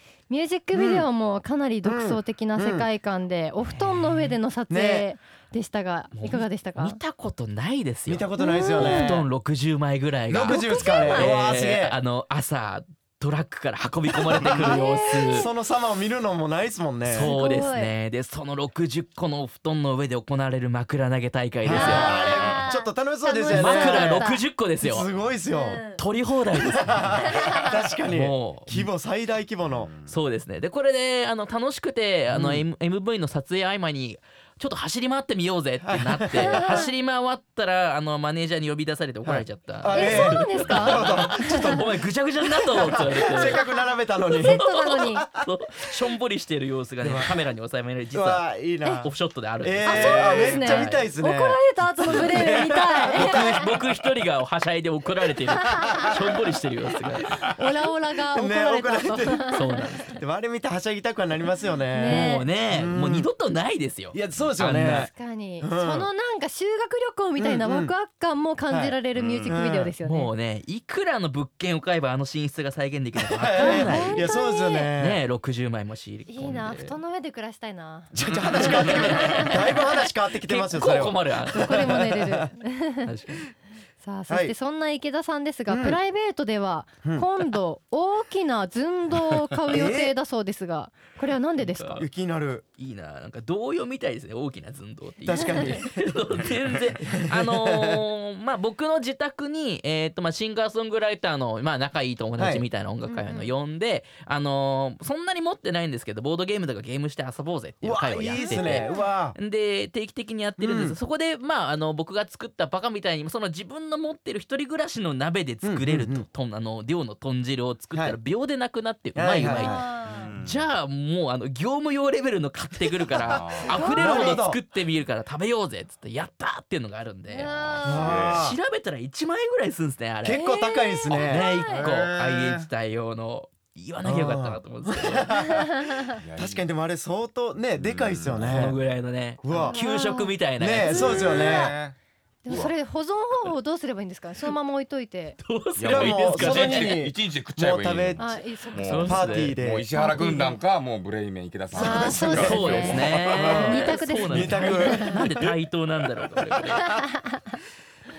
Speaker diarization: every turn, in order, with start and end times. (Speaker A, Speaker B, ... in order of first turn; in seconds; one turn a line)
Speaker A: 0.3-7.0
Speaker B: 0.7-1.1
Speaker B: 1.8-2.9
Speaker B: 4.7-5.1
Speaker C: 6.1-15.5
Speaker B: 8.1-9.3
Speaker A: 8.4-9.2
Speaker B: 10.3-12.0
Speaker A: 10.4-11.4
Speaker B: 14.3-17.3
Speaker A: 14.4-15.5
Speaker C: 17.1-22.2
Speaker A: 17.2-17.9
Speaker B: 21.6-24.3
Speaker A: 21.7-24.4
Speaker D: 21.7-22.7
Speaker C: 23.5-25.1
Speaker B: 24.8-25.8
Speaker A: 25.5-26.0
Speaker C: 26.0-27.4
Speaker B: 26.6-29.9
Speaker A: 27.2-27.7
Speaker C: 28.1-28.9
Speaker D: 29.7-30.2
Speaker C: 30.1-43.6
Speaker B: 32.3-32.6
Speaker B: 35.9-36.8
Speaker A: 36.4-36.9
Speaker B: 39.2-41.9
Speaker A: 39.9-41.8
Speaker B: 42.5-45.5
Speaker A: 43.0-45.2
Speaker C: 44.4-51.1
Speaker B: 47.0-47.4
Speaker B: 48.1-49.1
Speaker B: 49.6-53.7
Speaker A: 49.9-53.7
Speaker D: 50.1-50.5
Speaker C: 52.0-52.6
Speaker C: 53.1-57.3
Speaker A: 55.5-56.1
Speaker B: 55.8-56.1
Speaker A: 57.3-59.8
Speaker B: 58.3-63.3
Speaker C: 59.5-60.2
Speaker A: 61.9-62.5
Speaker C: 62.1-65.1
Speaker B: 64.1-66.1
Speaker A: 65.1-70.3
Speaker B: 67.4-67.9
Speaker B: 68.7-69.9
Speaker D: 69.2-69.6
Speaker C: 70.0-74.3
Speaker B: 73.3-75.2
Speaker A: 73.6-74.9
Speaker C: 75.0-77.0
Speaker A: 76.3-79.8
Speaker B: 78.1-82.4
Speaker C: 80.4-82.0
Speaker A: 81.5-83.1
Speaker C: 83.0-83.5
Speaker A: 84.0-92.1
Speaker B: 84.3-84.5
Speaker B: 85.7-86.0
Speaker B: 89.7-90.2
Speaker C: 91.6-92.0
Speaker B: 92.0-92.6
Speaker C: 92.8-127.5
Speaker B: 95.2-96.5
Speaker A: 95.4-95.8
Speaker B: 97.1-98.0
Speaker B: 102.4-102.6
Speaker A: 103.1-103.5
Speaker B: 107.8-109.4
Speaker A: 108.2-109.1
Speaker B: 110.6-111.0
Speaker B: 115.6-116.3
Speaker B: 119.2-119.8
Speaker A: 119.4-120.3
Speaker D: 120.0-120.7
Speaker D: 123.3-123.8
Speaker A: 123.7-124.4
Speaker B: 123.8-124.6
Speaker A: 127.3-128.2
Speaker D: 127.4-128.5
Speaker B: 127.8-128.6
Speaker C: 128.2-130.5
Speaker B: 130.2-131.5
Speaker A: 130.4-132.0
Speaker C: 131.1-135.4
Speaker D: 131.6-132.7
Speaker B: 134.0-135.7
Speaker A: 135.4-136.0
Speaker D: 136.2-136.7
Speaker B: 136.4-138.8
Speaker D: 137.8-138.8
Speaker C: 138.5-141.1
Speaker B: 139.4-139.8
Speaker A: 139.5-141.7
Speaker B: 140.6-141.8
Speaker D: 140.9-142.0
Speaker A: 142.4-145.4
Speaker D: 142.5-142.7
Speaker C: 145.4-147.0
Speaker D: 145.8-153.6
Speaker B: 145.9-148.3
Speaker A: 148.2-149.3
Speaker C: 148.8-149.6
Speaker B: 149.0-149.9
Speaker A: 149.9-150.6
Speaker A: 151.7-155.2
Speaker B: 151.8-155.5
Speaker C: 152.4-157.0
Speaker A: 156.8-157.5